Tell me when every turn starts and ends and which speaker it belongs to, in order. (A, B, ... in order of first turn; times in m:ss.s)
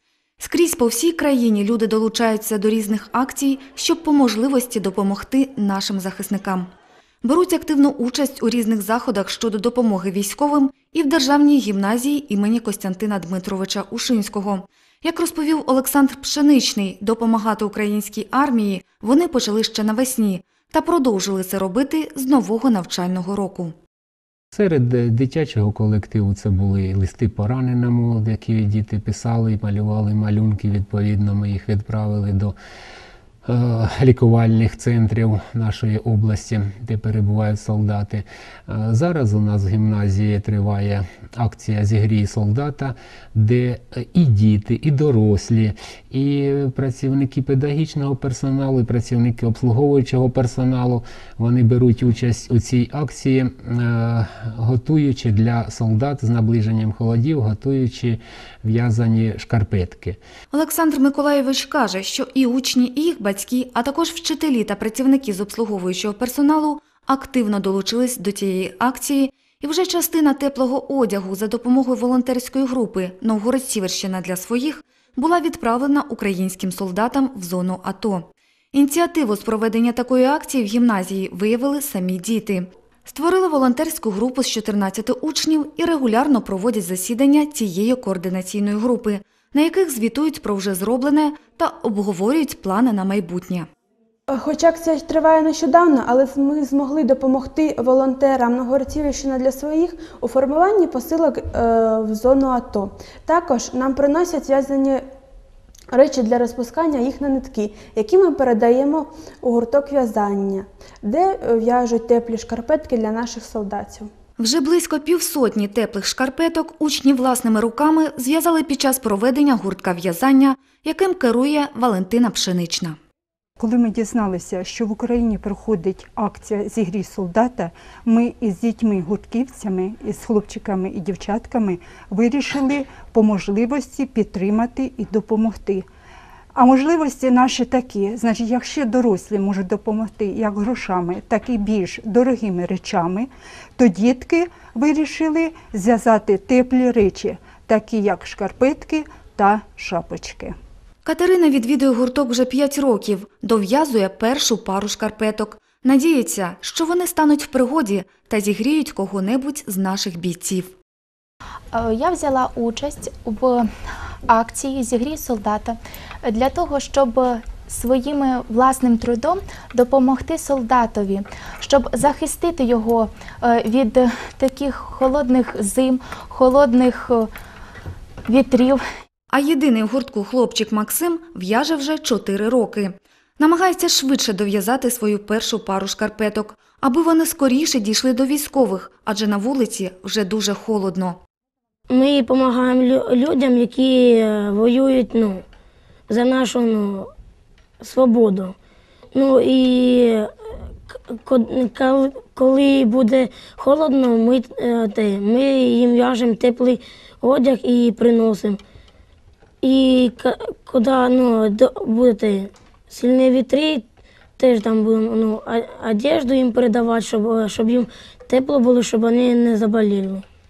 0:00.4-0:06.7 A
0:07.2-0:23.7 A
0:24.5-0:32.5 B
0:33.5-1:00.2 B
1:00.5-1:33.7 A
1:34.3-1:45.0 C
1:45.9-1:54.1 C
1:54.4-2:03.0 A
2:03.6-2:15.9 D
2:16.6-2:30.6 D
2:31.0-2:40.7 A
2:41.7-2:43.6 E
2:44.3-2:57.3 E
2:58.3-2:58.8 E
2:59.3-3:11.2 A
3:11.9-3:15.4 F
3:16.1-3:17.1 F
3:17.8-3:18.6 F
3:19.2-3:20.3 F
3:20.9-3:28.6 F
3:29.6-3:33.8 F
3:34.4-3:40.2 F